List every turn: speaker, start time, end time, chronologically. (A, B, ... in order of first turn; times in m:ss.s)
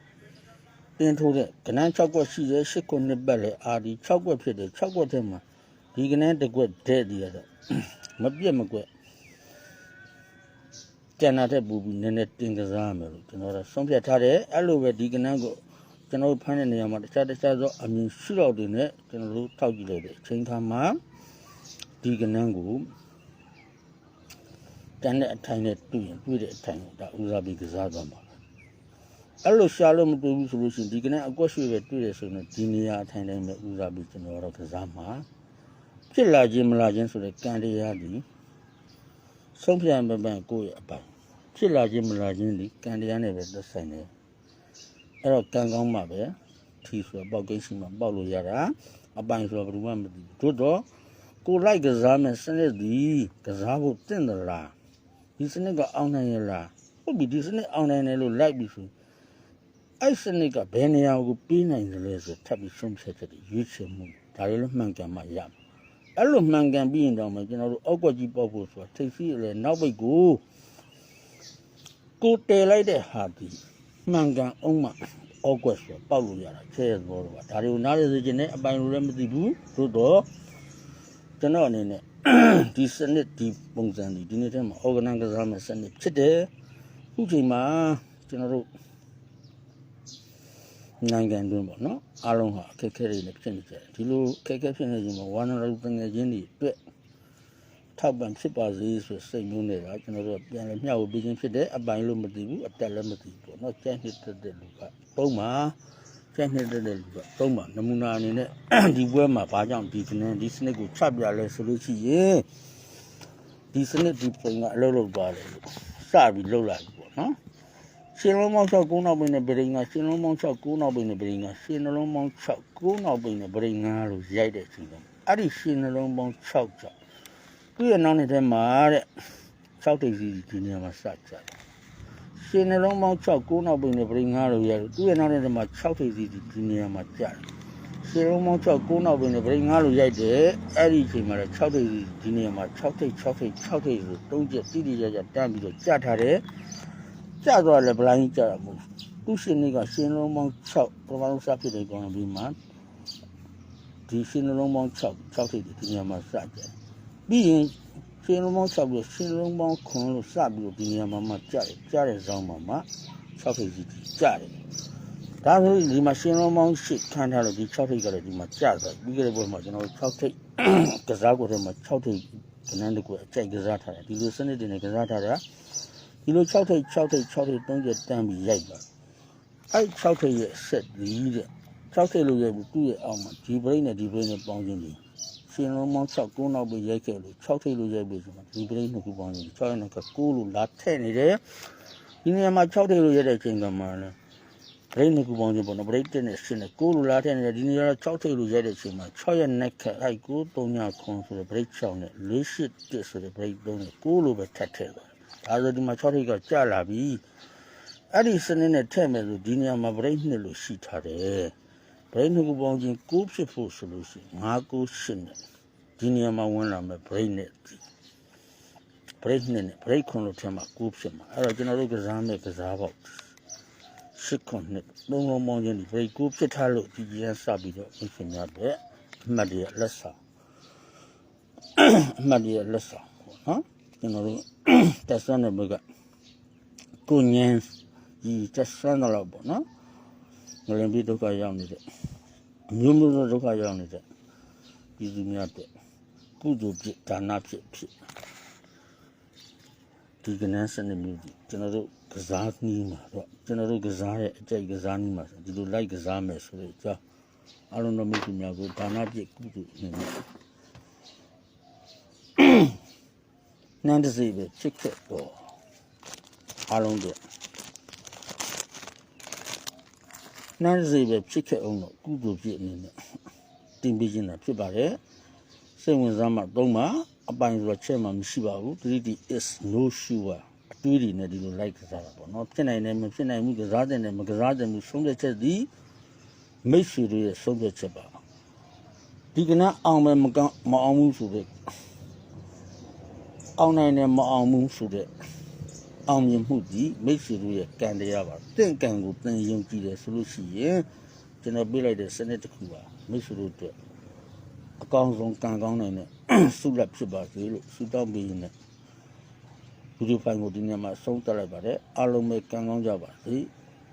0:01.0-0:08.9 A
0:11.2-0:21.0 A
0:22.0-0:22.9 A
0:25.0-0:28.3 A
0:29.4-0:35.2 A
0:36.1-0:38.2 A
0:39.5-0:44.1 A
0:45.2-0:50.9 A
0:51.4-0:54.7 A
0:55.4-0:58.9 A
1:00.0-1:05.5 A
1:06.2-1:10.4 A
1:12.2-1:20.3 A
1:21.4-1:26.5 A
1:27.1-1:28.7 A
1:31.0-1:36.8 A
1:38.0-1:45.8 A
1:46.3-1:52.5 A
1:53.7-1:57.4 A
1:58.1-2:06.9 A
2:07.8-2:09.1 A
2:09.8-2:11.5 A
2:12.4-2:17.4 A
2:18.0-2:26.4 A
2:27.4-2:32.6 A
2:34.1-2:36.7 A
2:37.3-2:44.6 A
2:45.4-2:55.4 A
2:56.2-2:58.8 A
2:59.7-3:11.4 A
3:12.2-3:14.2 A
3:14.9-3:27.2 A
3:28.1-3:31.5 A
3:32.1-3:35.4 A
3:36.0-3:37.8 A
3:39.2-3:43.3 A
3:44.1-3:50.2 A
3:51.8-3:55.8 A
3:57.1-3:59.6 A
4:00.7-4:01.8 A
4:02.7-4:04.0 A
4:05.0-4:05.7 A
4:06.4-4:07.9 A
4:10.2-4:17.0 A
4:17.7-4:20.2 A
4:22.4-4:22.7 A
4:23.8-4:25.4 A
4:26.7-4:27.2 A
4:30.6-4:32.9 A
4:33.8-4:35.0 A
4:35.8-4:45.7 A
4:46.6-4:48.2 A
4:49.3-4:51.5 A
4:53.6-4:55.1 A
4:56.1-5:00.9 A
5:01.4-5:03.7 A
5:04.8-5:08.5 A
5:10.0-5:13.5 A